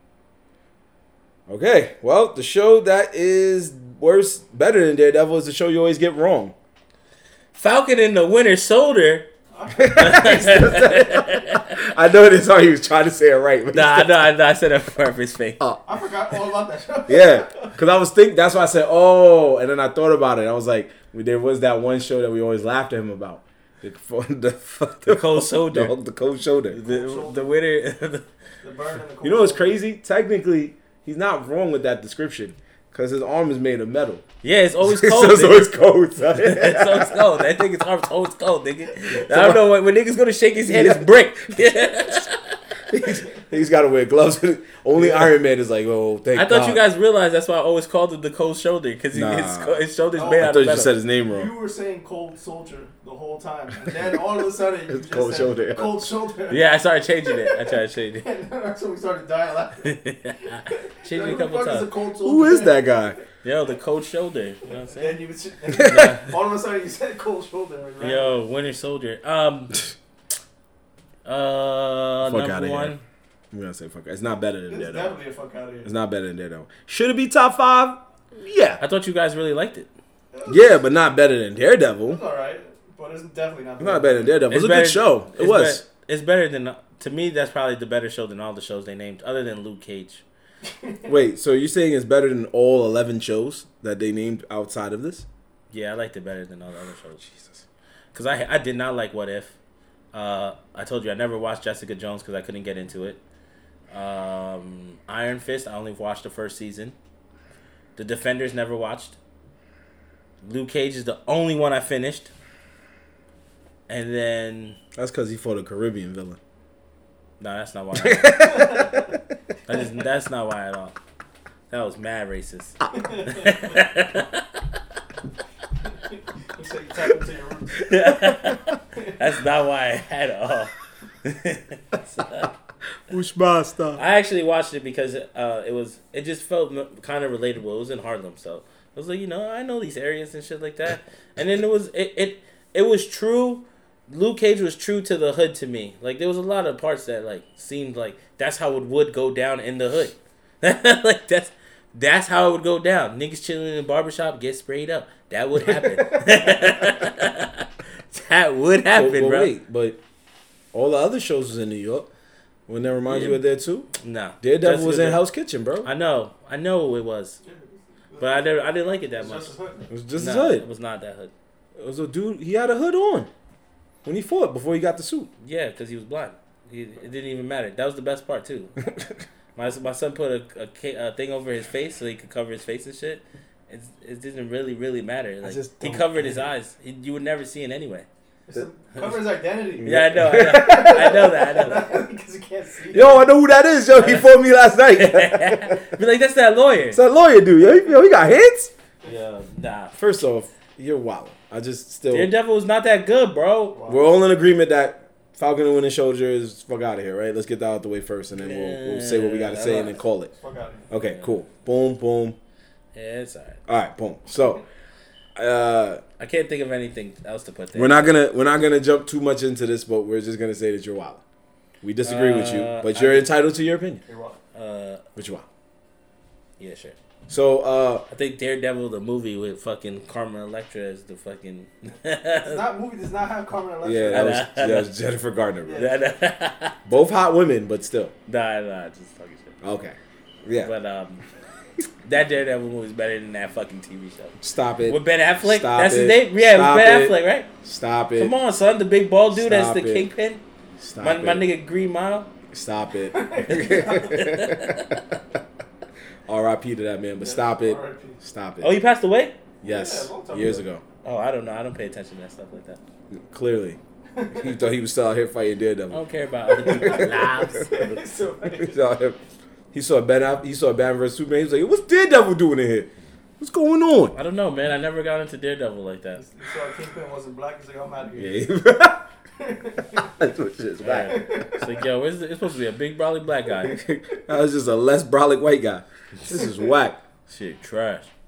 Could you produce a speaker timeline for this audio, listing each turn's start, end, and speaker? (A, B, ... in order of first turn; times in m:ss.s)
0:01.5-0:06.5 A
0:07.5-0:09.3 B
0:09.5-0:10.8 C
0:09.7-0:14.2 A
0:09.9-0:11.8 B
0:13.7-0:15.6 B
0:15.8-0:17.7 C
0:17.1-0:26.8 A
0:25.0-0:26.0 B
0:26.7-0:28.2 B
0:26.8-0:27.5 C
0:28.6-0:29.8 C
0:29.2-0:34.2 A
0:34.4-0:35.7 B
0:34.8-0:37.3 A
0:36.3-0:42.6 B
0:39.1-0:39.6 A
0:40.6-0:42.2 A
0:42.9-0:46.8 A
0:46.3-0:50.9 B
0:49.1-0:51.5 A
0:50.1-0:56.7 C
0:54.9-0:56.1 A
0:56.5-0:58.3 B
0:57.2-1:00.0 C
0:59.8-1:01.9 B
1:00.6-1:02.9 C
1:02.2-1:03.2 A
1:03.4-1:05.2 B
1:04.7-1:08.4 C
1:05.7-1:06.2 A
1:05.8-1:06.3 B
1:08.0-1:09.8 B
1:11.2-1:13.0 B
1:12.2-1:12.9 A
1:13.5-1:15.1 A
1:14.7-1:15.9 C
1:15.8-1:18.8 A
1:18.8-1:19.9 B
1:20.3-1:20.8 C
1:20.4-1:22.2 A
1:22.0-1:24.4 C
1:23.8-1:25.8 A
1:24.5-1:30.2 B
1:30.7-1:31.1 C
1:31.1-1:35.2 A
1:35.7-1:37.3 B
1:37.2-1:37.6 A
1:38.1-1:39.6 B
1:40.1-1:43.2 B
1:43.9-1:46.9 B
1:48.0-1:49.2 B
1:50.4-1:52.3 B
1:53.9-1:54.8 B
1:55.0-1:56.4 A
1:57.4-1:58.5 B
1:58.0-1:59.1 A
1:58.3-1:59.1 C
1:59.6-2:01.0 B
2:01.7-2:04.4 B
2:02.9-2:03.8 C
2:06.1-2:08.0 C
2:07.8-2:10.7 B
2:11.2-2:12.5 B
2:13.1-2:14.0 A
2:14.0-2:39.5 B
2:35.6-2:36.7 A
2:38.9-2:40.0 A
2:40.7-2:42.1 A
2:42.7-2:43.9 A
2:43.0-2:43.4 B
2:44.0-2:45.2 B
2:44.4-2:45.9 A
2:45.8-2:47.4 B
2:47.4-2:48.5 C
2:48.2-2:49.5 B
2:49.2-2:49.9 C
2:49.9-2:50.6 A
2:50.2-2:51.3 B
2:51.8-2:53.3 A
2:54.0-2:55.3 A
2:55.4-2:58.7 B
2:59.6-3:08.1 B
3:05.4-3:06.5 A
3:08.5-3:13.3 C
3:09.8-3:11.4 A
3:09.8-3:11.9 B
3:12.9-3:15.9 A
3:13.9-3:14.3 B
3:14.9-3:17.0 B
3:16.9-3:18.7 A
3:19.0-3:20.0 B
3:20.0-3:22.3 A
3:22.1-3:23.8 B
3:23.7-3:24.1 C
3:23.9-3:30.3 A
3:28.3-3:30.0 B
3:30.3-3:30.9 C
3:30.9-3:32.4 A
3:31.0-3:31.3 B
3:32.9-3:33.6 B
3:33.7-3:34.6 A
3:35.4-3:36.0 A
3:36.2-3:38.2 B
3:37.7-3:41.2 A
3:41.8-3:44.0 A
3:42.0-3:43.3 B
3:44.1-3:44.4 C
3:44.5-3:45.0 B
3:45.2-3:45.5 A
3:46.6-3:47.0 B
3:47.3-3:48.0 A
3:48.1-3:52.6 B
3:52.4-3:54.4 C
3:53.8-3:55.8 A
3:54.1-3:54.9 B
3:55.6-3:56.0 C
3:55.7-3:56.8 B
3:56.8-3:58.1 A
3:58.3-3:59.6 B
3:59.6-4:00.7 A
4:00.6-4:01.2 B
4:02.0-4:07.5 B
4:04.4-4:08.3 A
4:08.2-4:10.4 B
4:09.3-4:10.1 A
4:10.8-4:11.4 A
4:11.0-4:12.3 B
4:12.5-4:15.0 A
4:13.0-4:14.3 C
4:13.5-4:15.0 B
4:16.3-4:18.8 A
4:17.2-4:18.2 C
4:18.6-4:19.4 B
4:19.6-4:20.8 A
4:19.6-4:20.7 C
4:21.0-4:22.8 B
4:23.1-4:23.8 A
4:24.1-4:24.7 C
4:24.3-4:26.0 A
4:25.9-4:28.0 B
4:26.5-4:27.6 A
4:26.6-4:28.8 C
4:28.5-4:29.2 A
4:29.7-4:34.1 A
4:34.1-4:36.2 B
4:36.2-4:38.4 C
4:38.2-4:39.1 A
4:39.4-4:40.1 C
4:40.0-4:41.2 A
4:40.8-4:43.8 B
4:41.0-4:41.8 C
4:43.6-4:47.0 A
4:47.3-4:48.1 B